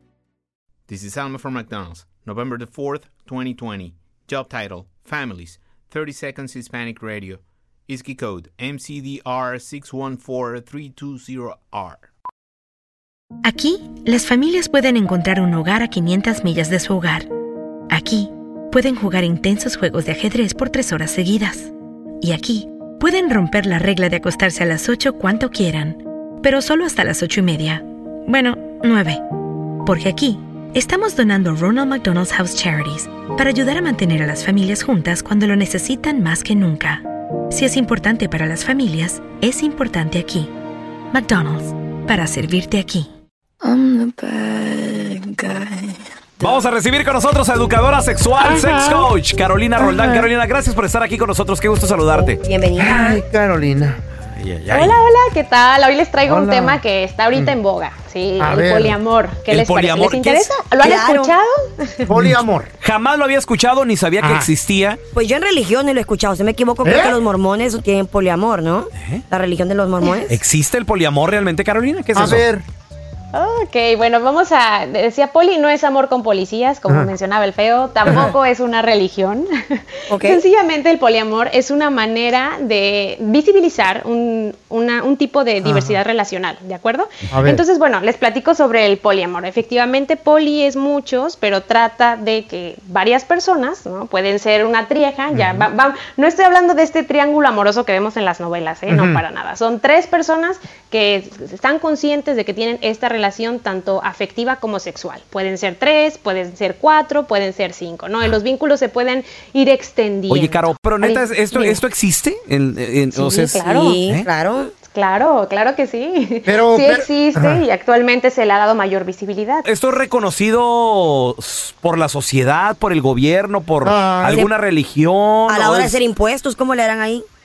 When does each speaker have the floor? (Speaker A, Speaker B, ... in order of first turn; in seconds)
Speaker A: 0.9-12.1
Speaker B: 13.4-17.3, 17.9-21.7, 22.2-29.2, 29.9-40.5, 41.1-43.1
Speaker C: 43.6-46.0
Speaker D: 46.4-52.4, 54.6-55.0, 59.5-60.6, 62.8-65.0, 69.0-69.2, 70.2-72.5, 110.3-114.3, 119.7-126.0
Speaker E: 48.4-48.8, 52.1-53.2, 60.8-61.3, 65.1-70.4, 80.1-80.4, 113.7-114.7, 125.5-127.2
Speaker F: 52.8-54.0, 56.2-56.8, 58.4-59.0, 62.1-62.7, 64.2-64.5, 66.8-67.2, 72.2-72.7, 78.1-78.3, 85.6-86.0, 87.3-87.6, 95.3-95.7, 98.9-99.2, 116.5-117.6, 123.8-124.5
Speaker G: 54.7-62.2, 73.3-111.8, 113.2-114.0, 114.9-119.7